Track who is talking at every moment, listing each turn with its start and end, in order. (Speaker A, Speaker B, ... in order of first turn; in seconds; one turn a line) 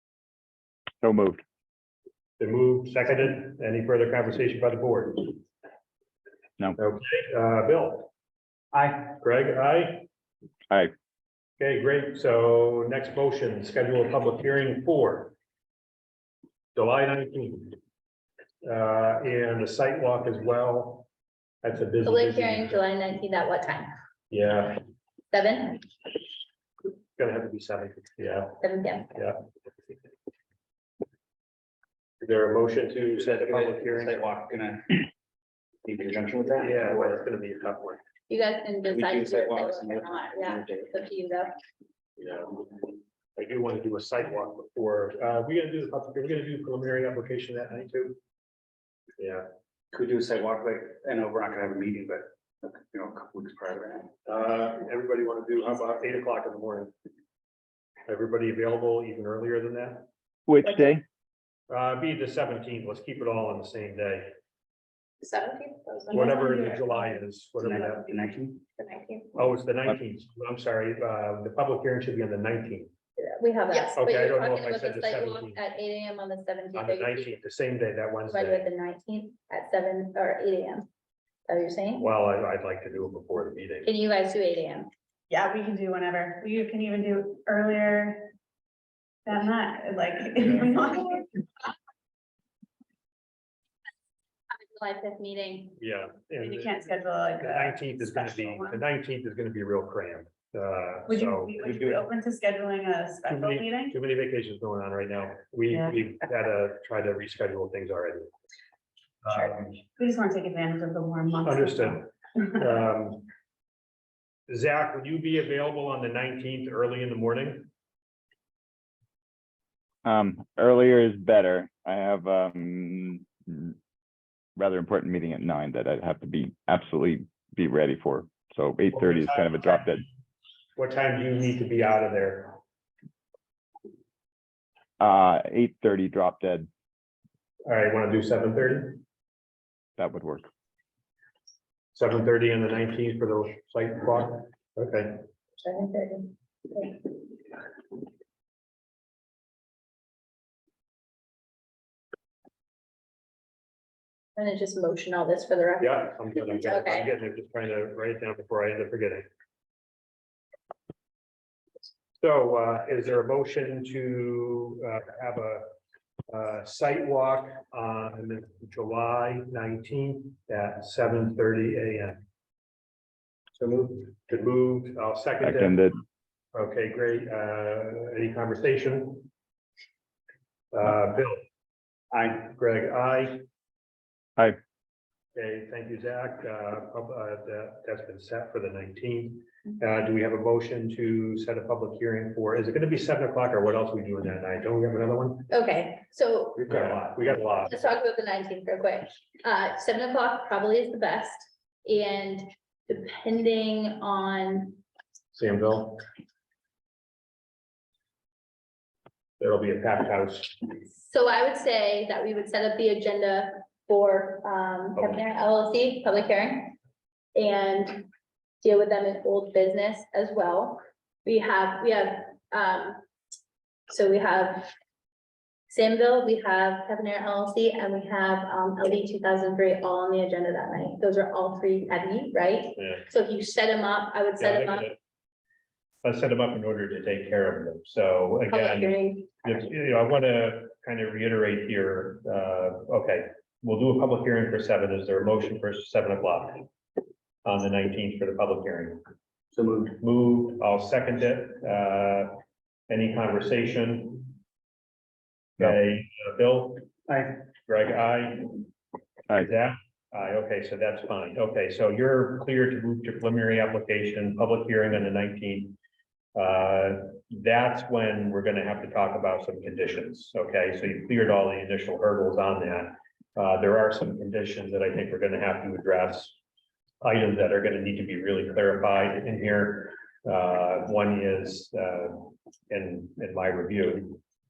Speaker A: 1.0-1.4
Speaker B: 2.4-5.4
Speaker B: 6.8-8.1
Speaker C: 8.7-9.1
Speaker B: 9.1-10.1
Speaker B: 11.6-15.3
Speaker B: 16.7-17.8
Speaker B: 18.6-21.1
Speaker B: 21.6-22.8
Speaker D: 22.0-23.9
Speaker B: 24.3-24.8
Speaker D: 25.3-25.9
Speaker B: 27.2-28.6
Speaker D: 28.6-29.1
Speaker B: 32.2-34.2
Speaker C: 33.3-35.1
Speaker C: 35.9-37.2
Speaker B: 36.6-38.0
Speaker D: 38.3-41.5
Speaker C: 38.9-40.9
Speaker B: 42.2-42.7
Speaker B: 43.4-48.2
Speaker B: 49.2-49.5
Speaker C: 49.9-54.1
Speaker B: 54.3-56.9
Speaker B: 58.1-60.1
Speaker A: 60.5-61.0
Speaker B: 61.7-64.3
Speaker D: 65.2-66.5
Speaker E: 66.1-67.2
Speaker B: 66.1-68.2
Speaker C: 67.6-68.6
Speaker D: 68.8-69.4
Speaker B: 69.3-72.9
Speaker D: 73.2-77.4
Speaker B: 73.9-75.6
Speaker B: 76.7-78.7
Speaker D: 78.3-80.9
Speaker D: 81.5-82.1
Speaker B: 82.0-83.9
Speaker D: 83.8-84.9
Speaker E: 85.3-88.3
Speaker E: 89.2-91.5
Speaker D: 94.5-95.8
Speaker B: 95.8-96.8
Speaker E: 96.4-98.8
Speaker B: 97.4-102.0
Speaker E: 101.1-104.0
Speaker B: 103.2-108.3
Speaker E: 105.7-105.9
Speaker B: 109.2-109.7
Speaker E: 109.3-112.0
Speaker B: 111.4-113.3
Speaker B: 114.5-117.7
Speaker A: 120.0-123.8
Speaker A: 124.6-130.0
Speaker B: 130.8-132.6
Speaker A: 135.0-136.7
Speaker B: 137.7-139.0
Speaker A: 140.0-140.5
Speaker B: 141.9-145.2
Speaker D: 145.6-147.1
Speaker D: 154.3-157.1
Speaker B: 155.8-159.3
Speaker B: 162.2-165.7
Speaker B: 166.3-172.2
Speaker C: 173.6-174.0
Speaker B: 173.9-175.9
Speaker A: 175.4-176.0
Speaker B: 176.5-179.3
Speaker B: 180.7-181.4
Speaker C: 182.1-182.4
Speaker B: 182.3-183.4
Speaker B: 185.3-195.5
Speaker D: 195.5-196.8
Speaker B: 196.7-197.8
Speaker D: 197.6-204.8
Speaker B: 205.3-206.0
Speaker B: 209.4-210.6
Speaker D: 210.8-216.8
Speaker B: 214.9-215.2
Speaker D: 217.3-218.1
Speaker D: 218.6-223.0
Speaker D: 223.9-224.7
Speaker D: 225.7-234.9
Speaker B: 232.8-233.1
Speaker B: 234.4-235.0
Speaker B: 236.0-246.7
Speaker D: 238.5-239.3
Speaker B: 247.4-249.0
Speaker C: 249.5-249.9
Speaker B: 249.9-252.4
Speaker B: 252.9-254.3
Speaker B: 255.6-256.9
Speaker C: 257.1-257.3
Speaker B: 257.7-258.6
Speaker B: 259.3-265.8
Speaker B: 266.3-276.4
Speaker B: 277.0-284.2